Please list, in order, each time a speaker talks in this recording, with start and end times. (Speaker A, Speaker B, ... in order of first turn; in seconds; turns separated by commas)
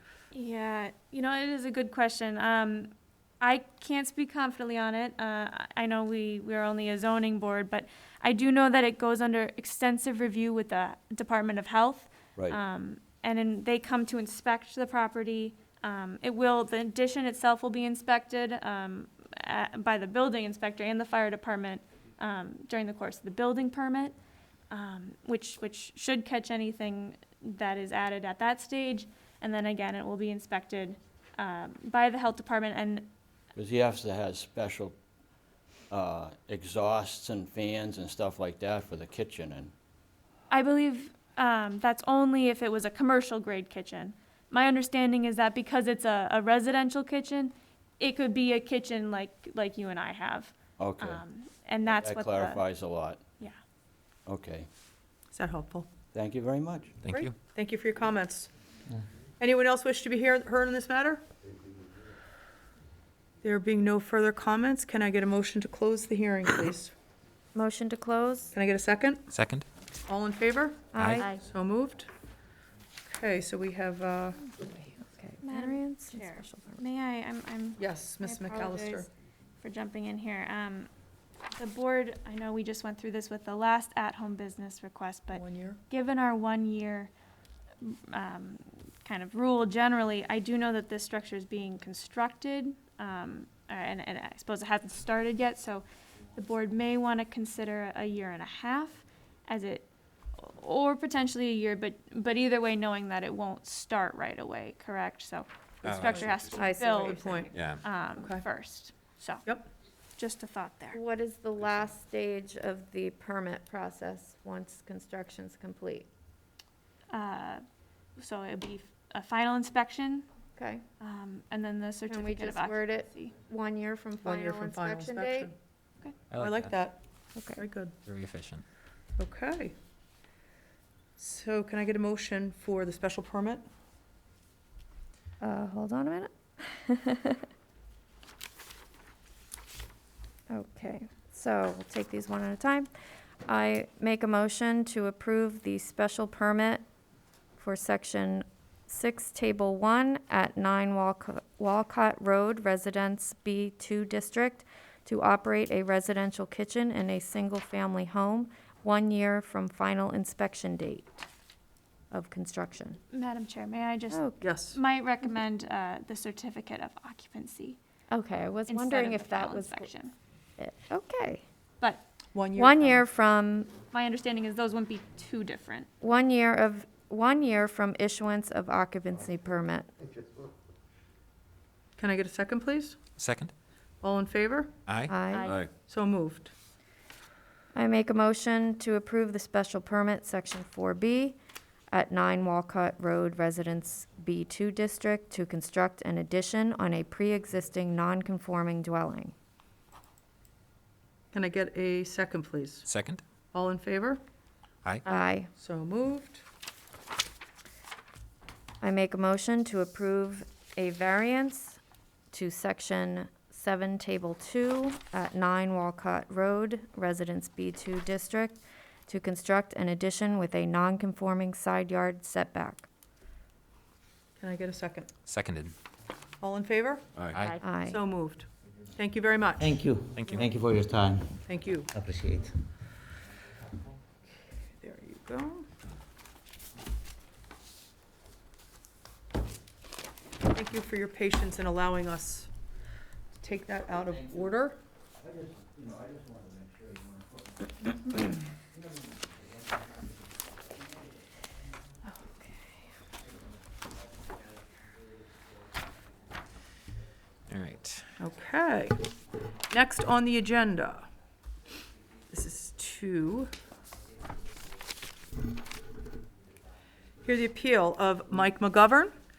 Speaker A: 0.3-24.1, Speaker A: 24.7-33.1, Speaker B: 33.5-35.0, Speaker B: 35.9-39.7, Speaker A: 40.5-52.8, Speaker B: 50.8-51.2, Speaker B: 51.9-53.2, Speaker B: 54.2-54.7, Speaker C: 55.3-55.9, Speaker B: 56.1-57.0, Speaker D: 57.0-57.3, Speaker C: 57.1-58.5, Speaker C: 59.4-61.2, Speaker C: 63.4-66.9, Speaker E: 67.5-68.5, Speaker C: 68.5-69.2, Speaker D: 69.3-69.7, Speaker C: 70.1-72.1, Speaker E: 70.9-71.4, Speaker D: 71.0-71.2, Speaker C: 73.0-74.4, Speaker E: 74.5-76.8, Speaker A: 75.4-79.1, Speaker C: 77.8-79.1, Speaker A: 79.6-80.9, Speaker A: 81.5-87.1, Speaker C: 85.3-85.8, Speaker A: 87.8-109.4, Speaker D: 105.8-106.7, Speaker C: 105.9-107.5, Speaker E: 106.6-107.4, Speaker D: 107.5-107.8, Speaker C: 108.2-108.4, Speaker A: 110.2-111.0, Speaker E: 110.9-116.1, Speaker A: 117.1-117.6, Speaker A: 118.2-120.2, Speaker E: 120.5-120.8, Speaker A: 121.0-123.3, Speaker E: 122.1-125.5, Speaker C: 124.2-125.5, Speaker D: 126.3-126.8, Speaker C: 126.3-127.0, Speaker E: 127.3-127.6, Speaker C: 127.5-128.0, Speaker D: 128.0-128.6, Speaker C: 129.2-129.7, Speaker C: 131.2-133.6, Speaker E: 135.4-137.4, Speaker E: 140.5-142.9, Speaker E: 143.4-146.8, Speaker E: 147.6-161.1, Speaker E: 162.1-163.0, Speaker A: 163.1-167.8, Speaker E: 164.1-164.4, Speaker C: 164.4-164.8, Speaker E: 168.1-169.9, Speaker A: 168.7-170.1, Speaker E: 170.6-171.4, Speaker A: 171.8-172.0, Speaker C: 172.3-173.0, Speaker E: 172.6-173.7, Speaker A: 173.9-175.9, Speaker E: 176.0-179.9, Speaker C: 182.0-183.0, Speaker D: 183.2-183.5, Speaker C: 184.0-184.7, Speaker D: 184.9-185.2, Speaker E: 185.1-185.6, Speaker C: 185.7-186.5, Speaker E: 187.7-191.4, Speaker E: 191.9-199.3, Speaker C: 201.3-202.8, Speaker D: 202.8-203.2, Speaker C: 203.5-204.2, Speaker E: 205.0-205.5, Speaker C: 205.6-206.4, Speaker E: 208.8-211.8, Speaker E: 212.3-222.9, Speaker C: 224.4-225.1, Speaker D: 225.2-225.7, Speaker C: 226.4-227.1, Speaker D: 227.3-227.7, Speaker E: 227.6-228.0, Speaker C: 227.7-229.8, Speaker F: 229.6-231.3, Speaker D: 230.1-230.5, Speaker C: 231.4-231.9, Speaker F: 231.9-232.5, Speaker C: 234.8-235.7, Speaker C: 240.4-242.5, Speaker C: 243.4-244.8, Speaker D: 257.5-258.1, Speaker C: 258.2-259.0, Speaker C: 259.7-261.1, Speaker C: 262.3-263.5, Speaker C: 267.2-269.1